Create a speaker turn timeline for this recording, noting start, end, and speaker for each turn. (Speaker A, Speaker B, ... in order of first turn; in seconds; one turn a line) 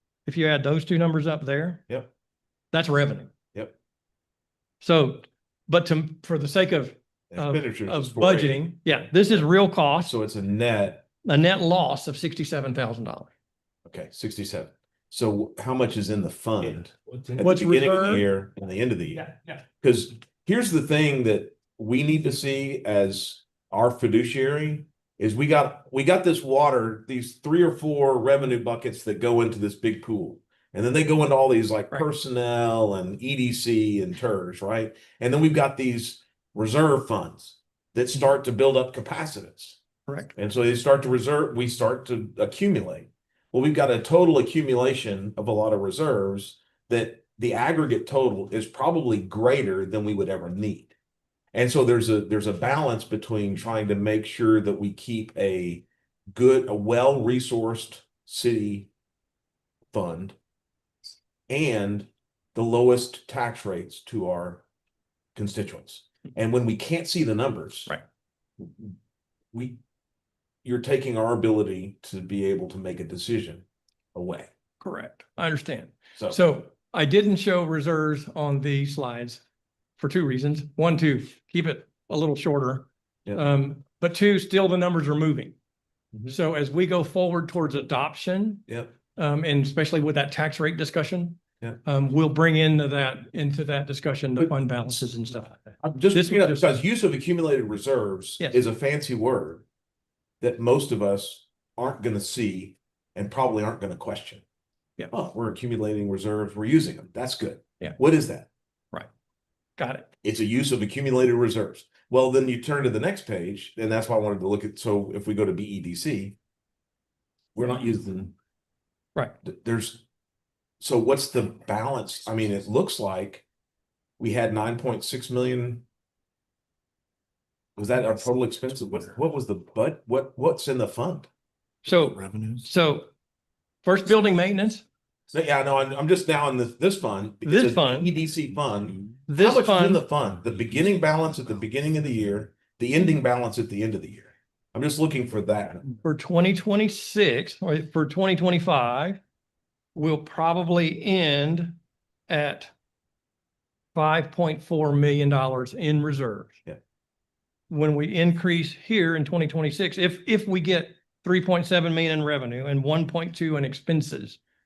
Speaker A: 0.2-1.8
Speaker A: 2.7-3.3
Speaker A: 4.8-10.1
Speaker B: 7.3-8.7
Speaker B: 10.0-11.0
Speaker A: 11.2-13.3
Speaker B: 13.9-39.8
Speaker A: 17.4-18.2
Speaker A: 40.1-40.3
Speaker B: 40.3-50.9
Speaker B: 51.5-58.9
Speaker B: 59.9-60.3
Speaker B: 61.5-64.6
Speaker B: 65.3-68.0
Speaker B: 68.6-68.9
Speaker B: 69.5-69.8
Speaker B: 70.7-74.5
Speaker A: 74.8-79.4
Speaker A: 80.0-85.5
Speaker A: 86.3-96.7
Speaker B: 88.7-88.9
Speaker B: 95.8-99.7
Speaker B: 100.4-104.4
Speaker B: 105.1-108.5
Speaker A: 109.8-110.1
Speaker B: 110.2-116.4
Speaker B: 117.5-118.3
Speaker B: 119.4-120.0
Speaker B: 120.8-123.5
Speaker B: 124.2-125.8
Speaker B: 127.8-131.3
Speaker A: 131.8-133.1
Speaker A: 133.8-134.8
Speaker B: 135.3-145.9
Speaker A: 137.4-138.1
Speaker A: 139.3-140.0
Speaker A: 146.0-149.2
Speaker A: 149.9-151.8
Speaker A: 152.3-152.7
Speaker A: 153.9-156.5
Speaker A: 157.7-164.4